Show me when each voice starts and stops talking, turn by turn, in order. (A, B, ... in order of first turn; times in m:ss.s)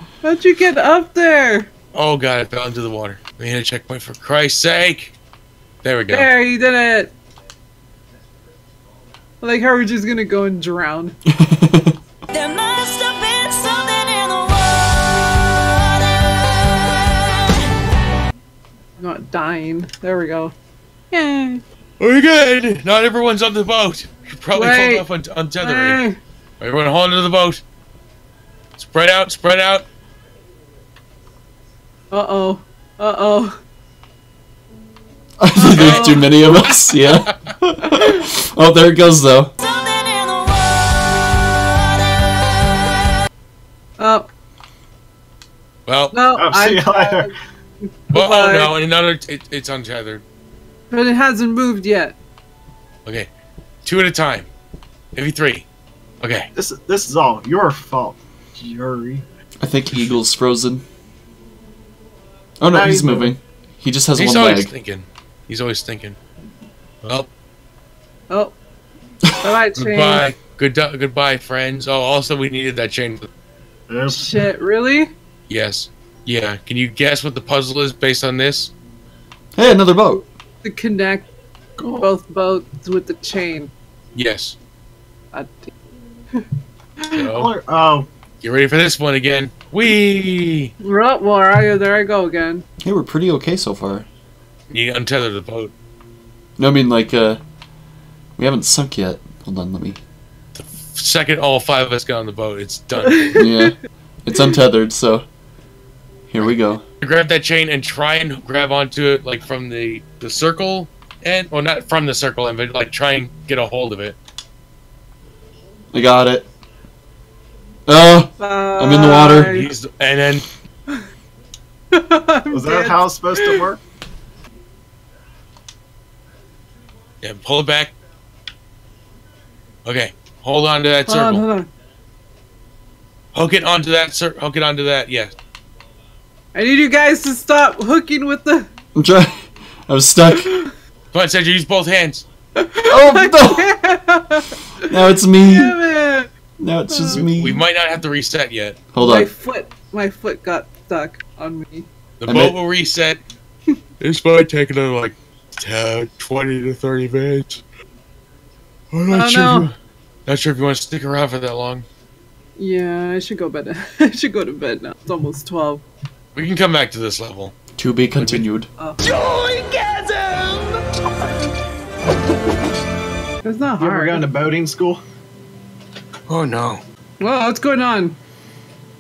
0:00.2-0:01.7 A
0:01.9-0:05.2 B
0:05.8-0:06.3 B
0:06.1-0:07.1 A
0:09.4-0:11.2 A
0:11.3-0:12.0 C
0:12.3-0:16.5 D
0:19.0-0:20.5 A
0:21.1-0:21.6 A
0:22.0-0:26.0 B
0:24.5-0:25.1 A
0:25.6-0:26.2 A
0:26.6-0:27.6 B
0:28.8-0:29.9 B
0:32.1-0:33.6 A
0:35.4-0:39.5 C
0:35.6-0:36.4 A
0:35.7-0:37.4 B
0:39.6-0:42.5 D
0:44.0-0:44.3 A
0:45.9-0:46.2 B
0:46.1-0:47.3 A
0:46.4-0:47.3 E
0:48.0-0:48.7 A
0:48.1-0:50.2 B
0:50.9-0:52.2 A
0:53.0-0:53.3 B
0:53.8-0:54.5 B
0:55.1-0:55.7 B
0:56.2-0:56.5 B
0:56.6-0:59.2 E
0:59.6-1:00.8 C
1:02.6-1:04.7 C
1:02.7-1:03.4 E
1:04.2-1:06.2 B
1:07.0-1:07.3 B
1:08.3-1:08.6 A
1:09.4-1:10.3 A
1:09.8-1:13.3 B
1:13.9-1:14.5 E
1:14.1-1:15.1 A
1:15.5-1:18.7 B
1:19.6-1:20.2 C
1:20.6-1:21.3 A
1:21.8-1:22.1 E
1:21.9-1:23.7 A
1:24.1-1:24.6 B
1:25.3-1:25.7 A
1:27.0-1:27.3 A
1:27.1-1:27.5 B
1:27.3-1:28.1 E
1:28.4-1:30.7 B
1:30.8-1:32.6 A
1:32.8-1:34.1 C
1:34.7-1:35.7 B
1:36.6-1:37.4 C
1:38.4-1:40.0 C
1:40.6-1:43.4 B
1:43.3-1:43.7 A
1:43.4-1:45.3 C
1:46.3-1:46.8 C
1:46.4-1:54.2 B
1:55.9-1:56.5 C
1:57.9-1:59.6 C
1:58.4-1:59.7 A
1:59.4-2:00.5 B
2:01.9-2:03.7 A
2:02.5-2:03.8 E
2:07.2-2:07.9 B
2:09.8-2:11.4 B
2:11.1-2:11.7 A
2:13.3-2:15.3 B
2:16.5-2:18.7 A
2:19.0-2:20.5 C
2:20.3-2:20.7 A
2:21.1-2:22.3 B
2:22.6-2:24.6 A
2:22.9-2:23.7 C
2:24.9-2:25.8 C
2:25.4-2:26.3 A
2:26.6-2:27.6 C
2:26.9-2:27.2 A
2:27.1-2:28.8 B
2:28.9-2:29.3 C
2:29.0-2:31.9 A
2:32.2-2:33.2 B
2:32.3-2:32.6 C
2:34.0-2:37.6 B
2:38.9-2:39.7 B
2:39.1-2:39.7 A
2:40.3-2:41.9 B
2:42.6-2:45.8 A
2:46.4-2:47.5 B
2:47.8-2:48.7 C
2:48.2-2:48.4 B
2:48.8-2:49.0 A
2:49.0-2:50.8 E
2:53.4-2:54.3 A
2:53.8-2:55.0 E
2:56.3-2:56.8 B
2:57.2-2:58.2 A